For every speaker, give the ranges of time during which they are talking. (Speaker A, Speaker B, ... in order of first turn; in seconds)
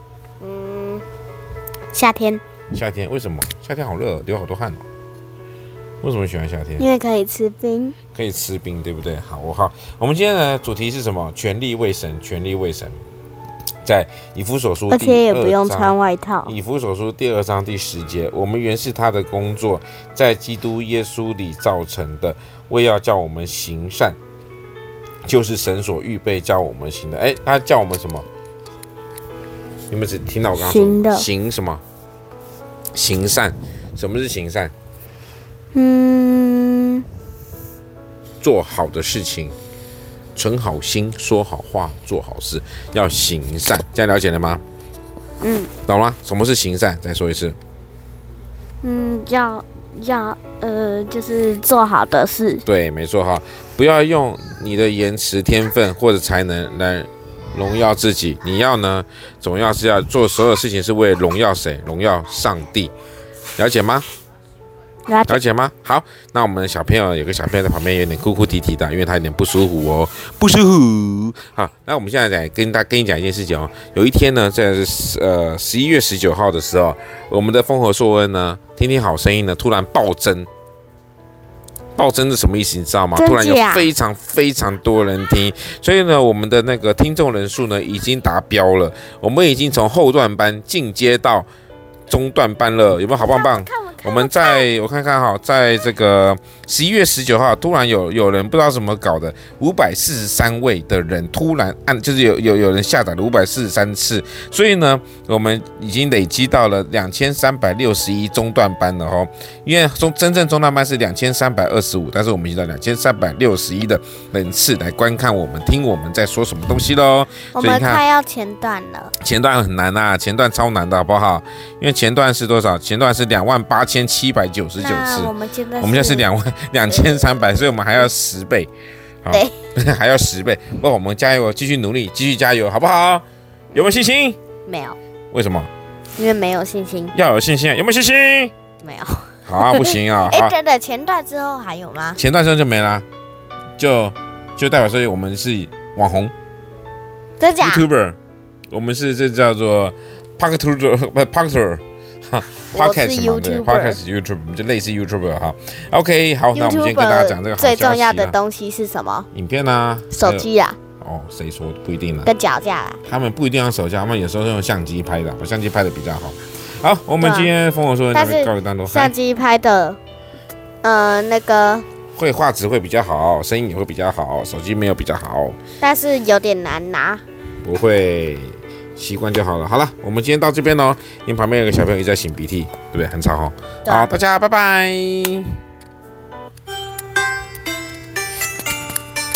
Speaker A: 0.4-1.0, 1.9-2.4, 6.8-8.0, 14.9-16.5, 30.6-31.3, 35.7-37.0, 45.4-45.7, 48.8-52.6, 65.1-65.4, 83.1-83.9, 93.8-94.6, 117.5-119.1, 124.8-126.3, 134.7-135.0, 136.2-137.1, 138.8-142.2, 147.4-147.8, 152.7-154.0, 156.5-159.3, 160.1-160.8, 162.2-163.0, 167.2-167.5, 168.1-170.0, 170.8-171.8, 175.8-177.2, 183.8-184.1
Speaker B: 2.7-4.8, 6.0-6.9, 8.1-13.0, 13.8-15.9, 16.4-24.2, 25.2-28.3, 29.9-31.8, 32.9-34.7, 38.4-39.5, 40.4-44.6, 45.9-47.6, 52.6-62.9, 63.6-64.1, 65.3-80.5, 82.0-91.5, 92.1-118.0, 119.2-128.7, 129.2-134.4, 135.3-135.7, 137.1-138.5, 139.4-140.5, 142.2-143.1, 143.8-146.3, 147.6-148.2, 148.7-158.3, 159.3-160.5, 161.0-162.3, 163.0-169.1, 172.1-175.6, 177.6-185.6